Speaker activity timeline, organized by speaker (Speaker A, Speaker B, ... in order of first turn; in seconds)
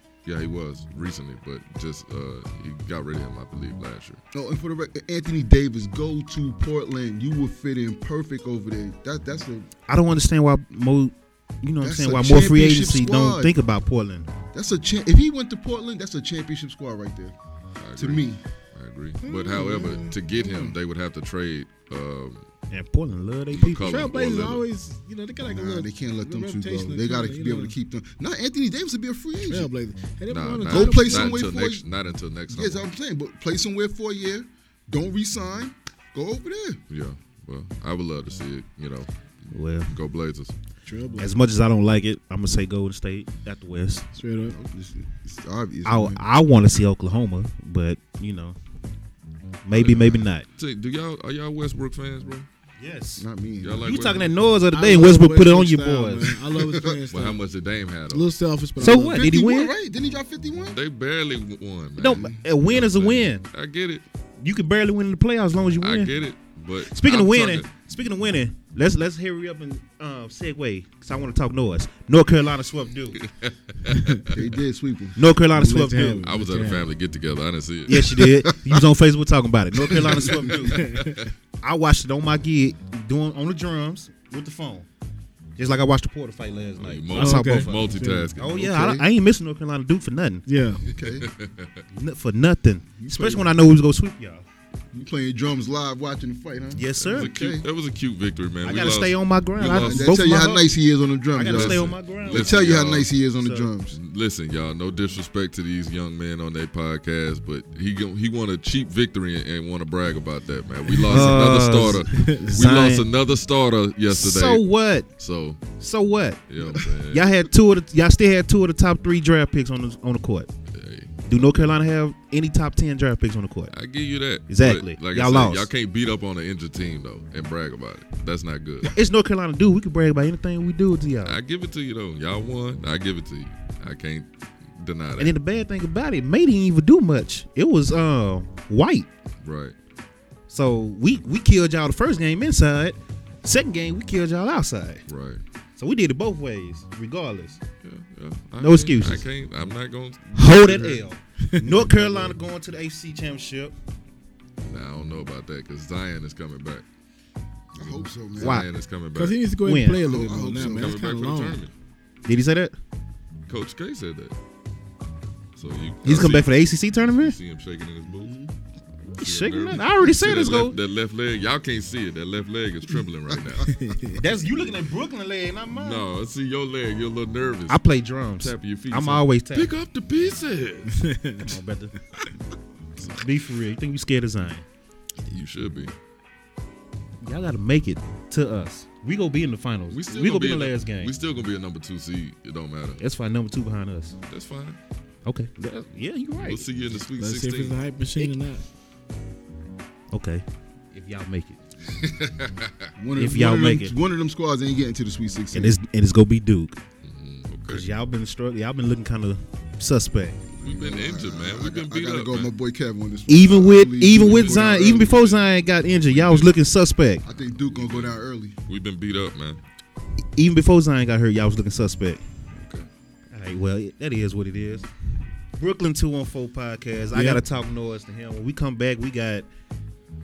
Speaker A: 0.2-4.2, 17.8-22.5, 23.5-24.6, 30.3-32.9, 36.9-39.1, 39.9-40.5, 49.7-52.5, 53.6-54.4, 57.1-58.3, 60.7-64.0, 65.8-67.7, 73.2-74.4, 76.2-78.2, 80.2-81.3, 86.8-88.8, 91.0-91.8, 97.0-100.1, 101.4-103.1, 103.9-115.6, 116.5-117.4, 120.7-121.8, 123.7-129.0, 131.2-135.3, 139.4-139.8, 145.1-145.4, 147.8-151.1, 151.8-152.4, 154.6-156.8, 157.8-159.4, 160.5-161.7, 163.5-164.3, 165.6-166.5, 167.1-168.4, 169.2-173.7, 175.7-177.8, 178.4-181.0, 185.2-185.9, 189.9-193.0, 194.3-194.8, 196.4-197.8, 201.9-202.9, 207.0-207.9, 210.6-212.5, 214.2-216.6, 217.2-219.6, 222.6-222.9
Speaker B: 4.3-9.7, 11.8-13.5, 14.5-17.4, 18.0-18.4, 25.4-29.7, 30.6-31.9, 32.5-36.8, 44.5-46.2, 53.2-53.9, 56.6-57.0, 58.8-60.8, 62.2-62.4, 74.3-75.3, 78.2-78.8, 79.9-80.2, 88.6-89.1, 90.9-91.3, 93.0-93.5, 94.9-97.7, 99.6-104.0, 157.8-158.6, 160.0-160.9, 168.1-168.5, 203.0-205.8, 210.6-215.2, 217.3-218.6
Speaker C: 9.9-14.3, 22.7-24.1, 39.5-39.9, 41.2-44.1, 45.9-48.6, 49.6-50.5, 52.8-53.2, 53.8-56.4, 58.8-59.7, 62.0-63.4, 64.4-66.2, 66.8-73.2, 75.2-76.2, 77.9-80.9, 81.6-84.9, 85.6-90.5, 91.9-94.5, 96.8-97.4, 98.6-100.7, 101.3-102.7, 103.4-103.7, 111.0-113.1, 114.1-115.1, 115.8-120.5, 121.3-123.7, 124.5-125.7, 128.8-131.4, 135.2-139.1, 140.5-145.0, 145.8-147.6, 148.6-149.3, 150.3-153.8, 158.4-158.7, 159.6-160.1, 162.3-162.8, 166.0-167.4, 169.1-170.8, 174.1-176.1, 177.7-179.7, 181.4-182.0, 183.1-184.7, 187.2-191.1, 193.0-194.2, 195.2-196.7, 200.1-201.7, 203.2-203.9, 205.5-206.8, 207.7-210.4, 213.3-217.2, 220.4-222.2, 223.3-224.9, 225.6-229.5
Speaker D: 19.2-20.8, 23.8-27.8, 29.5-31.4, 40.9-41.3, 44.1-44.6, 54.7-57.4, 58.1-59.2, 73.9-74.3, 75.5-76.9, 80.6-81.3, 87.1-88.3, 90.5-90.8, 111.0-111.3, 112.2-112.4, 159.2-161.6, 173.7-174.2, 180.9-181.6, 197.2-198.6, 227.1-227.4